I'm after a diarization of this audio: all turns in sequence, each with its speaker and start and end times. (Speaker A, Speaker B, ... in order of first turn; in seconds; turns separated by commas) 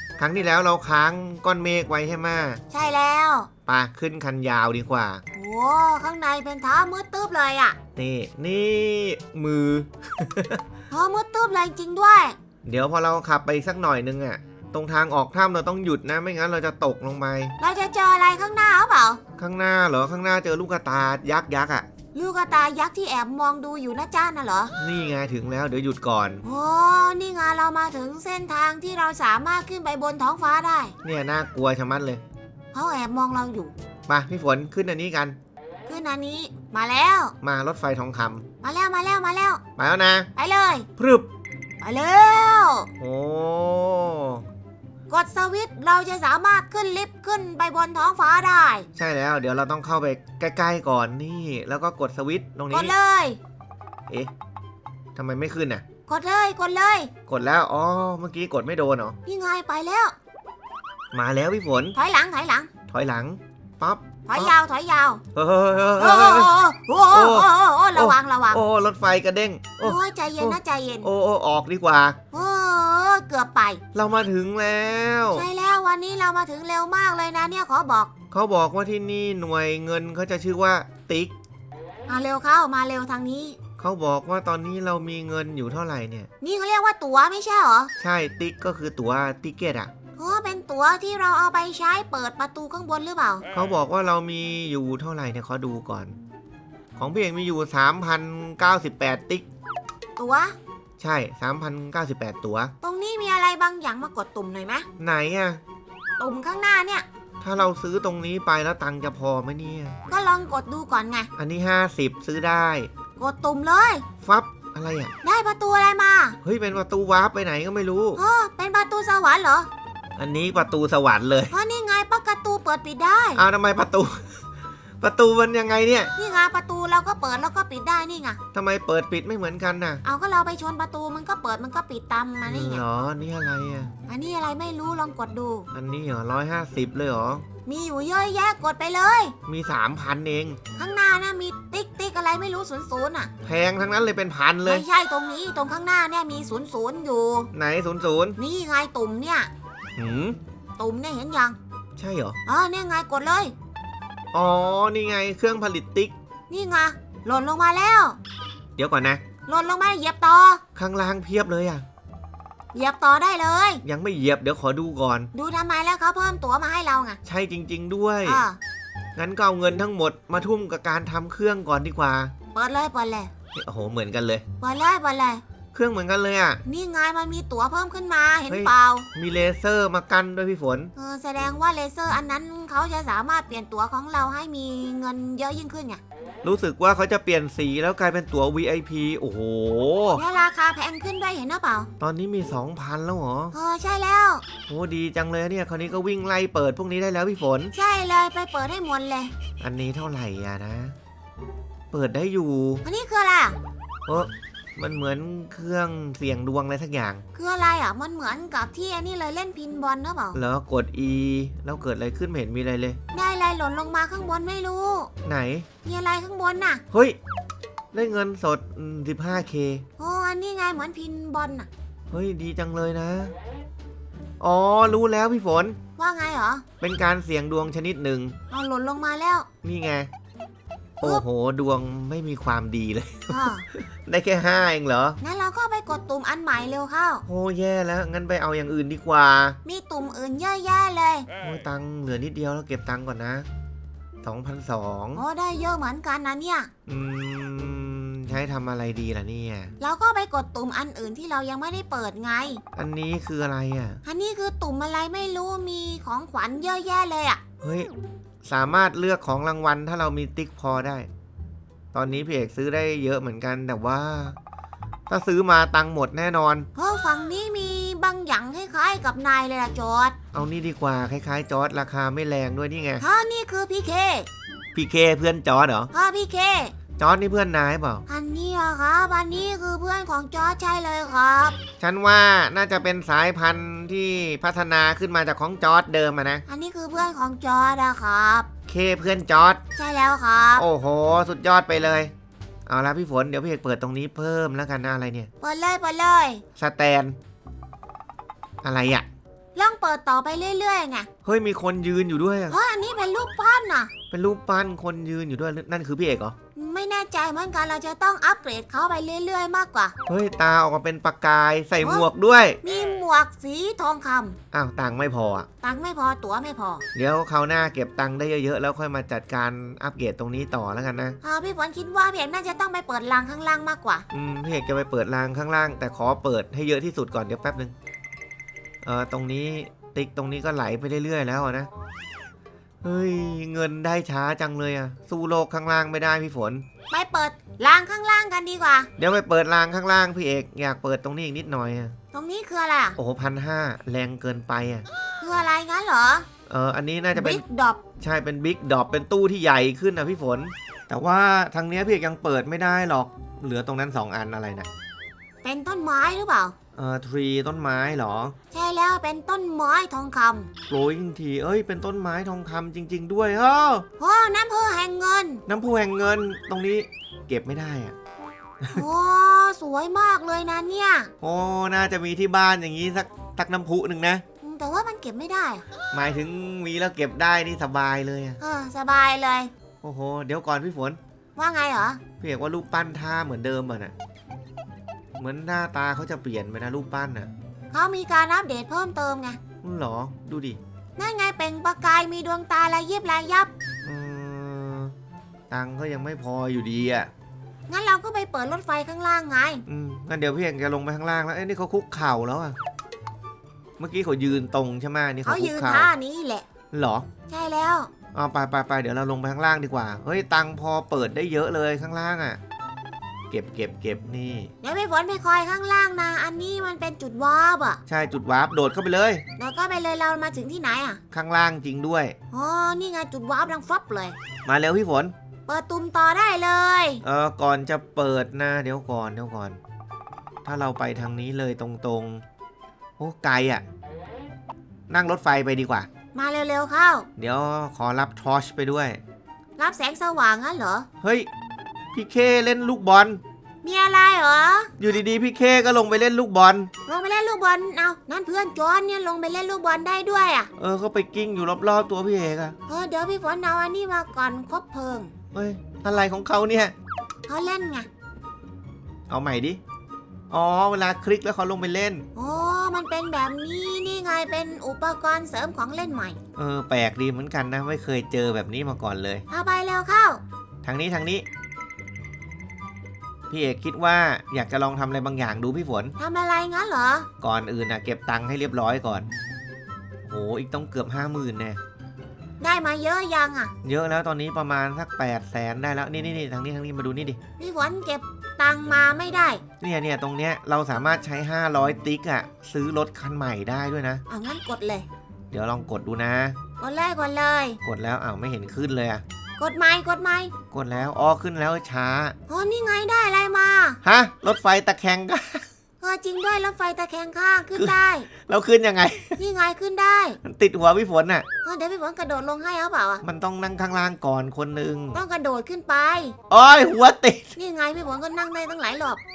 Speaker A: 0.2-2.6, Speaker B: 2.7-3.5, Speaker A: 3.6-5.2, Speaker B: 5.3-7.8, Speaker A: 8.0-10.6, Speaker B: 10.9-12.3, Speaker A: 12.6-17.6, Speaker B: 17.6-19.2, Speaker A: 19.4-21.9, Speaker B: 22.1-24.7, Speaker A: 24.8-26.4, Speaker B: 26.4-30.9, Speaker A: 31.0-32.2, Speaker B: 32.7-33.7, Speaker A: 34.1-35.4, Speaker B: 35.9-37.4, Speaker A: 37.4-38.5, Speaker B: 38.6-39.6, Speaker A: 39.8-40.3, Speaker B: 40.4-40.9, Speaker A: 41.0-41.3, Speaker B: 41.8-42.9, Speaker A: 43.0-44.4, Speaker B: 45.1-48.9, Speaker A: 49.0-52.9, Speaker B: 52.7-53.4, Speaker A: 55.1-55.8, Speaker B: 56.1-57.1, Speaker A: 57.3-59.2, Speaker B: 59.2-60.1, Speaker A: 61.1-62.0, Speaker B: 61.9-62.7, Speaker A: 62.9-64.5, Speaker B: 64.3-65.2, Speaker A: 65.3-66.5, Speaker B: 66.0-68.6, Speaker A: 67.1-72.2, Speaker B: 69.8-71.1, Speaker B: 72.3-73.8, Speaker A: 73.9-75.5, Speaker B: 75.3-78.1, Speaker A: 78.3-81.3, Speaker B: 82.1-83.5, Speaker A: 83.8-86.3, Speaker B: 86.4-87.9, Speaker A: 88.0-89.9, Speaker B: 90.2-93.5, Speaker A: 93.5-96.2, Speaker A: 97.0-99.5, Speaker B: 100.2-100.5, Speaker A: 101.0-102.7, Speaker B: 102.8-104.9, Speaker A: 105.0-105.6, Speaker B: 106.2-107.0, Speaker A: 107.4-110.0, Speaker B: 110.1-111.3, Speaker A: 111.3-112.9, Speaker B: 113.2-114.0, Speaker A: 114.2-115.1, Speaker B: 115.2-116.4, Speaker A: 116.4-118.2, Speaker B: 118.2-119.7, Speaker A: 120.2-121.5, Speaker B: 121.5-123.4, Speaker A: 123.3-124.4, Speaker A: 125.0-126.1, Speaker B: 126.2-128.4, Speaker A: 128.5-130.0, Speaker B: 130.0-132.8, Speaker A: 132.4-133.9, Speaker B: 134.1-135.7, Speaker A: 135.7-137.4, Speaker B: 137.7-139.3, Speaker A: 139.4-140.6, Speaker B: 140.8-143.3, Speaker A: 143.4-144.8, Speaker B: 144.6-147.5, Speaker A: 147.5-148.4, Speaker B: 148.4-149.5, Speaker A: 150.0-150.4, Speaker B: 150.8-151.6, Speaker A: 152.0-152.4, Speaker B: 152.4-153.5, Speaker A: 154.3-156.1, Speaker B: 156.5-158.2, Speaker A: 158.8-159.2, Speaker B: 159.5-160.6, Speaker A: 160.7-161.8, Speaker B: 162.7-163.8, Speaker A: 163.8-165.3, Speaker B: 165.3-167.2, Speaker A: 167.2-168.4, Speaker B: 168.2-168.6, Speaker A: 169.2-172.3, Speaker B: 172.5-173.3, Speaker A: 173.5-174.4, Speaker B: 174.6-175.4, Speaker A: 175.7-176.6, Speaker B: 176.7-179.1, Speaker A: 178.5-180.9, Speaker B: 180.9-186.0, Speaker A: 186.4-190.2, Speaker B: 190.1-191.9, Speaker A: 192.0-193.5, Speaker B: 193.5-194.4, Speaker A: 194.7-197.7, Speaker B: 197.7-199.3, Speaker A: 199.6-200.9, Speaker A: 201.9-202.8, Speaker B: 202.8-203.6, Speaker A: 204.1-207.2, Speaker B: 207.3-210.4, Speaker A: 210.3-213.0, Speaker B: 213.1-215.1, Speaker A: 215.2-215.7, Speaker B: 215.8-216.8, Speaker A: 216.9-217.2, Speaker A: 217.9-219.8, Speaker B: 220.0-221.7, Speaker A: 222.1-223.3, Speaker A: 224.4-225.8, Speaker B: 226.0-226.6, Speaker A: 226.8-228.3, Speaker B: 228.5-229.5, Speaker A: 229.6-230.1, Speaker A: 231.0-235.2, Speaker B: 233.3-233.6, Speaker B: 235.2-237.2, Speaker A: 237.2-239.6, Speaker B: 239.6-241.3, Speaker A: 241.4-243.5, Speaker A: 244.2-245.2, Speaker B: 245.1-246.7, Speaker A: 246.9-249.7, Speaker B: 249.8-252.6, Speaker A: 252.7-254.0, Speaker B: 254.0-257.4, Speaker A: 257.6-257.9, Speaker A: 258.4-261.1, Speaker A: 261.9-264.4, Speaker A: 265.1-266.7, Speaker B: 266.8-270.1, Speaker A: 270.3-273.0, Speaker B: 273.0-274.3, Speaker A: 274.7-275.9, Speaker B: 275.9-276.7, Speaker A: 277.0-278.0, Speaker B: 278.1-281.6, Speaker A: 281.8-286.4, Speaker B: 286.5-288.5, Speaker A: 288.7-289.6, Speaker B: 289.8-290.6, Speaker A: 290.6-292.1, Speaker A: 292.6-295.3, Speaker B: 295.4-296.4, Speaker A: 296.6-297.1, Speaker A: 298.6-299.1, Speaker B: 299.5-301.1, Speaker A: 301.2-302.6, Speaker B: 302.5-303.9, Speaker A: 304.1-306.3, Speaker B: 306.6-309.9, Speaker A: 310.1-312.6, Speaker B: 312.6-314.4, Speaker A: 314.5-315.5, Speaker B: 315.6-316.8, Speaker A: 316.9-321.2, Speaker B: 321.2-324.0, Speaker A: 324.1-327.7, Speaker A: 328.8-331.7, Speaker A: 332.8-336.6, Speaker B: 336.9-338.9, Speaker A: 339.0-341.9, Speaker B: 342.1-343.0, Speaker A: 342.9-344.8, Speaker B: 345.2-346.3, Speaker A: 346.5-347.4, Speaker B: 347.1-347.8, Speaker A: 348.0-354.7, Speaker B: 355.4-356.5, Speaker A: 356.7-358.4, Speaker B: 358.5-360.5, Speaker A: 360.7-363.8, Speaker B: 364.0-365.4, Speaker A: 365.5-367.9, Speaker B: 368.7-371.1, Speaker A: 371.2-374.2, Speaker B: 374.4-375.6, Speaker A: 375.9-378.4, Speaker B: 378.4-379.5, Speaker A: 379.8-381.0, Speaker B: 381.4-382.0, Speaker A: 382.2-383.9, Speaker A: 385.2-387.3, Speaker B: 387.7-389.4, Speaker A: 389.6-390.6, Speaker B: 391.0-393.5, Speaker A: 393.8-394.9, Speaker A: 395.5-397.1, Speaker B: 397.7-399.6, Speaker A: 399.7-402.6, Speaker A: 403.8-405.9, Speaker B: 405.2-406.4, Speaker A: 406.7-407.1, Speaker B: 407.3-407.9, Speaker A: 408.1-412.4, Speaker A: 413.3-414.5, Speaker B: 414.6-417.8, Speaker A: 417.9-419.2, Speaker B: 419.4-421.0, Speaker A: 421.1-422.1, Speaker B: 422.3-424.1, Speaker A: 424.4-425.1, Speaker B: 425.5-427.0, Speaker A: 427.0-429.6, Speaker A: 430.4-432.2, Speaker A: 433.0-433.6, Speaker A: 434.9-435.9, Speaker B: 436.1-437.1, Speaker A: 437.2-439.0, Speaker B: 439.6-440.9, Speaker A: 441.0-441.3, Speaker A: 441.9-443.2, Speaker B: 443.6-444.7, Speaker A: 444.8-446.7, Speaker B: 446.9-450.5, Speaker A: 450.6-452.5, Speaker B: 452.7-455.1, Speaker A: 455.3-456.7, Speaker B: 457.3-457.9, Speaker A: 459.1-459.6, Speaker A: 460.3-462.1, Speaker B: 462.1-466.2, Speaker A: 466.4-469.2, Speaker B: 469.3-470.2, Speaker A: 470.6-471.2, Speaker A: 473.3-475.9, Speaker B: 476.0-477.1, Speaker A: 477.2-479.1, Speaker A: 480.0-481.6, Speaker B: 482.4-483.5, Speaker A: 483.6-487.2, Speaker B: 487.4-489.4, Speaker A: 489.6-494.0, Speaker B: 494.1-494.9, Speaker A: 495.3-496.4, Speaker B: 496.6-497.6, Speaker A: 497.6-499.0, Speaker B: 499.4-500.3, Speaker A: 500.5-502.1, Speaker B: 502.3-503.8, Speaker A: 503.8-505.4, Speaker B: 505.8-508.1, Speaker A: 507.6-509.2, Speaker B: 509.2-510.2, Speaker A: 510.2-511.2, Speaker B: 511.4-513.0, Speaker A: 513.0-515.0, Speaker B: 514.9-516.1, Speaker A: 516.3-517.4, Speaker B: 517.4-519.0